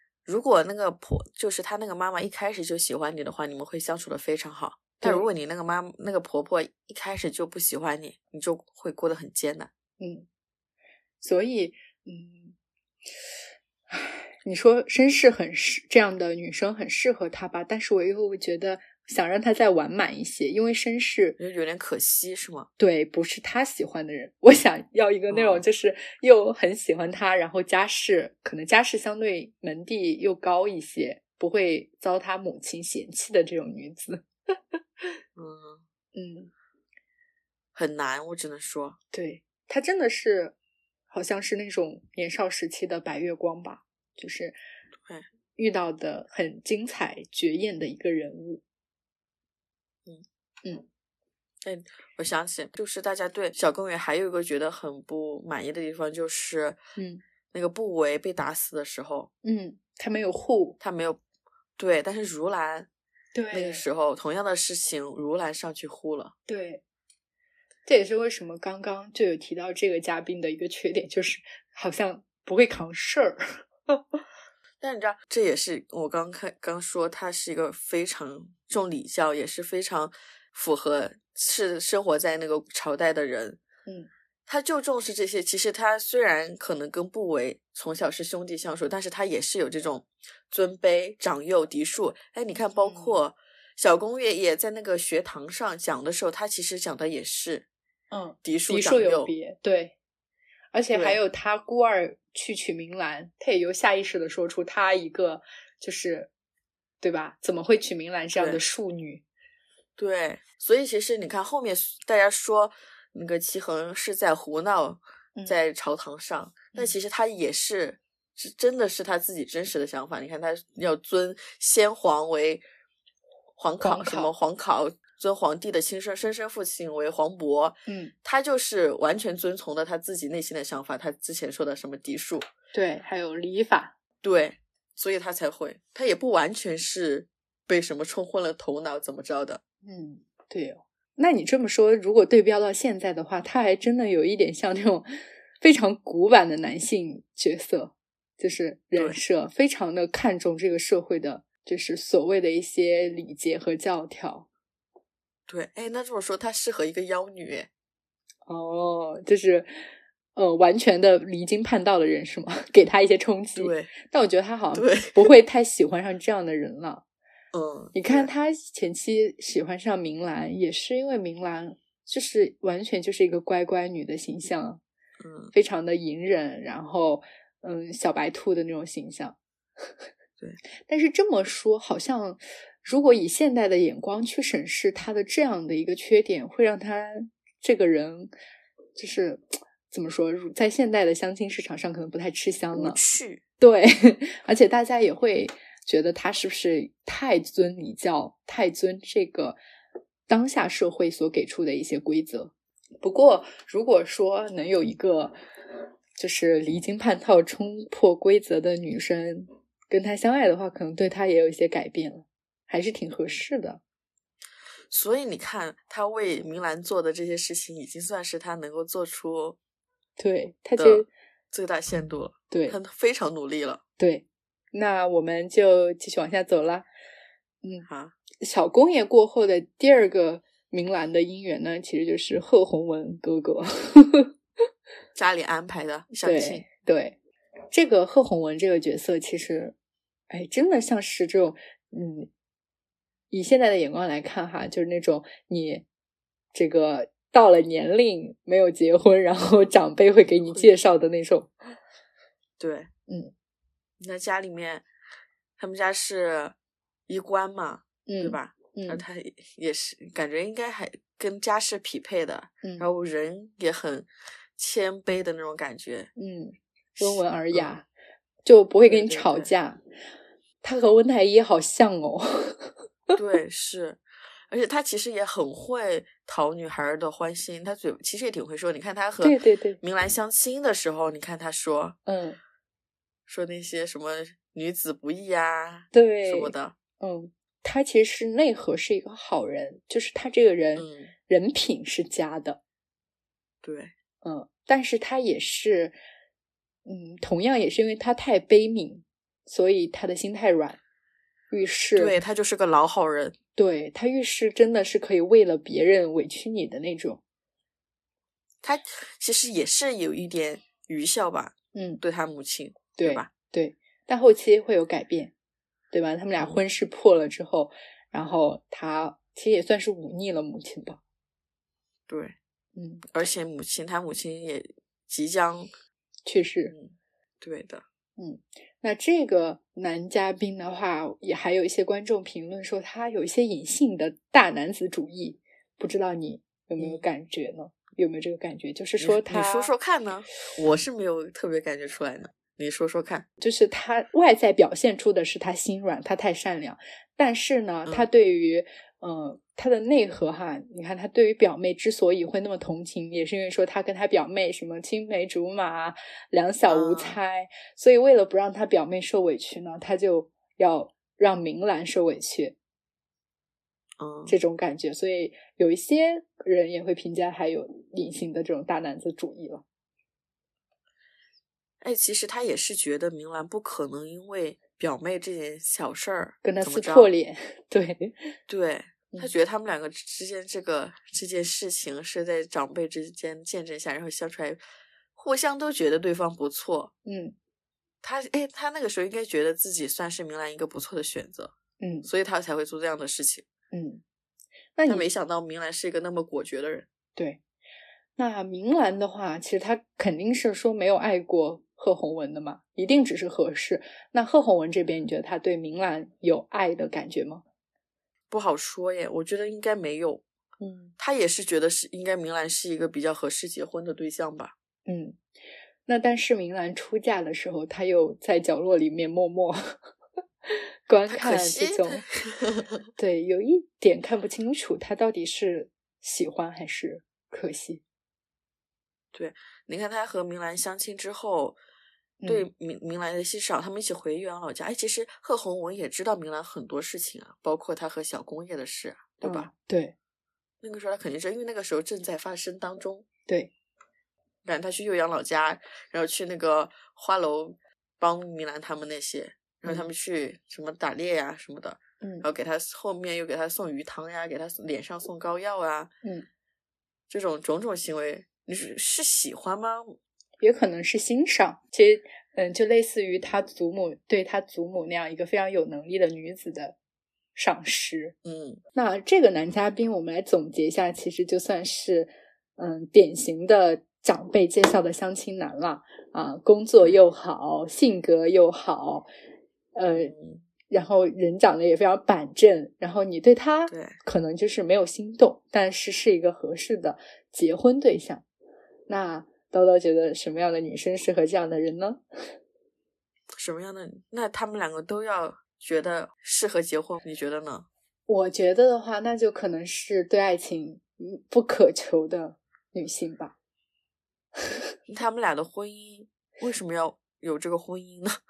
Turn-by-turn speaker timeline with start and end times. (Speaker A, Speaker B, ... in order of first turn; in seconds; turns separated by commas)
Speaker A: 0.3-9.7, Speaker B: 5.0-5.3, Speaker B: 10.0-10.3, Speaker B: 11.2-12.6, Speaker B: 13.9-21.4, Speaker A: 21.4-22.7, Speaker B: 22.8-34.8, Speaker A: 25.3-25.6, Speaker A: 35.4-35.8, Speaker B: 36.1-36.5, Speaker A: 37.8-39.0, Speaker B: 39.1-40.5, Speaker B: 41.1-44.6, Speaker B: 45.6-48.6, Speaker A: 51.6-56.8, Speaker B: 57.0-57.2, Speaker A: 57.5-59.3, Speaker B: 59.4-60.8, Speaker A: 60.8-61.2, Speaker A: 61.8-62.9, Speaker B: 63.3-63.9, Speaker A: 63.5-66.3, Speaker B: 66.5-66.8, Speaker B: 67.9-74.0, Speaker A: 74.8-83.6, Speaker A: 84.5-97.7, Speaker B: 92.8-93.2, Speaker B: 98.1-100.0, Speaker A: 98.4-99.3, Speaker B: 100.7-106.3, Speaker A: 100.9-101.2, Speaker B: 107.0-109.2, Speaker A: 108.4-108.6, Speaker A: 110.0-122.6, Speaker A: 123.6-132.5, Speaker B: 123.8-124.3, Speaker B: 127.9-128.1, Speaker B: 132.7-133.9, Speaker A: 134.2-139.6, Speaker B: 139.8-154.5, Speaker A: 155.5-157.7, Speaker B: 158.5-159.7, Speaker B: 160.3-167.0, Speaker A: 163.6-163.9, Speaker A: 164.7-165.3, Speaker A: 167.5-168.3, Speaker B: 167.9-174.8, Speaker A: 175.2-175.5, Speaker B: 175.5-179.8, Speaker B: 180.9-188.3, Speaker B: 189.0-193.0, Speaker A: 192.7-193.4, Speaker B: 193.6-199.6, Speaker B: 200.3-205.4, Speaker B: 206.2-213.8, Speaker A: 214.9-219.6, Speaker B: 220.2-221.1, Speaker A: 220.8-223.8, Speaker B: 222.5-222.8, Speaker B: 224.0-226.9, Speaker A: 227.9-228.1, Speaker B: 228.4-234.3, Speaker A: 235.2-236.6, Speaker B: 236.2-237.2, Speaker B: 237.7-239.8, Speaker B: 240.3-242.3, Speaker B: 243.3-245.8, Speaker B: 246.5-251.5, Speaker A: 250.4-250.7, Speaker A: 252.6-252.9, Speaker B: 253.1-253.3, Speaker A: 254.0-254.8, Speaker A: 255.6-256.6, Speaker A: 257.1-266.1, Speaker B: 258.1-259.0, Speaker B: 262.6-262.9, Speaker B: 266.2-267.9, Speaker A: 267.0-267.7, Speaker B: 268.4-269.8, Speaker A: 268.9-269.5, Speaker B: 270.6-273.2, Speaker A: 273.2-282.0, Speaker B: 279.2-279.8, Speaker B: 282.1-282.4, Speaker A: 283.3-286.8, Speaker B: 285.9-292.6, Speaker A: 290.8-291.1, Speaker A: 293.6-293.9, Speaker B: 294.2-295.9, Speaker B: 296.9-300.8, Speaker B: 301.5-302.2, Speaker A: 302.0-303.4, Speaker B: 303.6-307.2, Speaker A: 308.6-313.3, Speaker B: 311.7-312.0, Speaker B: 313.0-315.3, Speaker B: 315.9-321.0, Speaker A: 322.1-322.4, Speaker B: 322.8-323.1, Speaker A: 323.1-325.7, Speaker B: 326.3-326.8, Speaker A: 326.7-327.8, Speaker B: 328.2-339.7, Speaker A: 336.8-337.1, Speaker A: 339.0-343.3, Speaker B: 343.4-362.6, Speaker A: 356.7-357.2, Speaker A: 364.0-364.4, Speaker B: 364.3-369.6, Speaker A: 371.8-377.1, Speaker B: 376.4-378.4, Speaker A: 378.5-384.6, Speaker A: 385.2-386.9, Speaker B: 387.1-387.4, Speaker A: 388.0-393.5, Speaker B: 391.8-392.1, Speaker B: 393.7-394.0, Speaker B: 394.8-395.1, Speaker A: 394.9-396.9, Speaker B: 398.2-407.4, Speaker A: 408.3-410.2, Speaker B: 410.6-410.9, Speaker A: 411.0-414.5, Speaker B: 414.9-415.2, Speaker B: 415.9-419.8, Speaker B: 420.5-422.0, Speaker A: 421.1-422.8, Speaker B: 423.0-427.8, Speaker A: 429.1-431.6, Speaker B: 432.2-432.5, Speaker A: 432.3-439.5, Speaker B: 439.2-439.9, Speaker A: 440.6-443.1, Speaker A: 444.4-455.9, Speaker B: 452.0-452.3, Speaker A: 457.1-460.0, Speaker B: 460.4-466.8, Speaker B: 467.4-468.1, Speaker A: 468.2-468.6, Speaker B: 468.7-479.1, Speaker B: 479.8-480.1, Speaker A: 479.9-480.4, Speaker B: 480.7-488.2, Speaker A: 483.7-484.0, Speaker B: 488.9-492.0, Speaker A: 493.4-497.7, Speaker B: 498.1-503.4, Speaker A: 504.9-508.2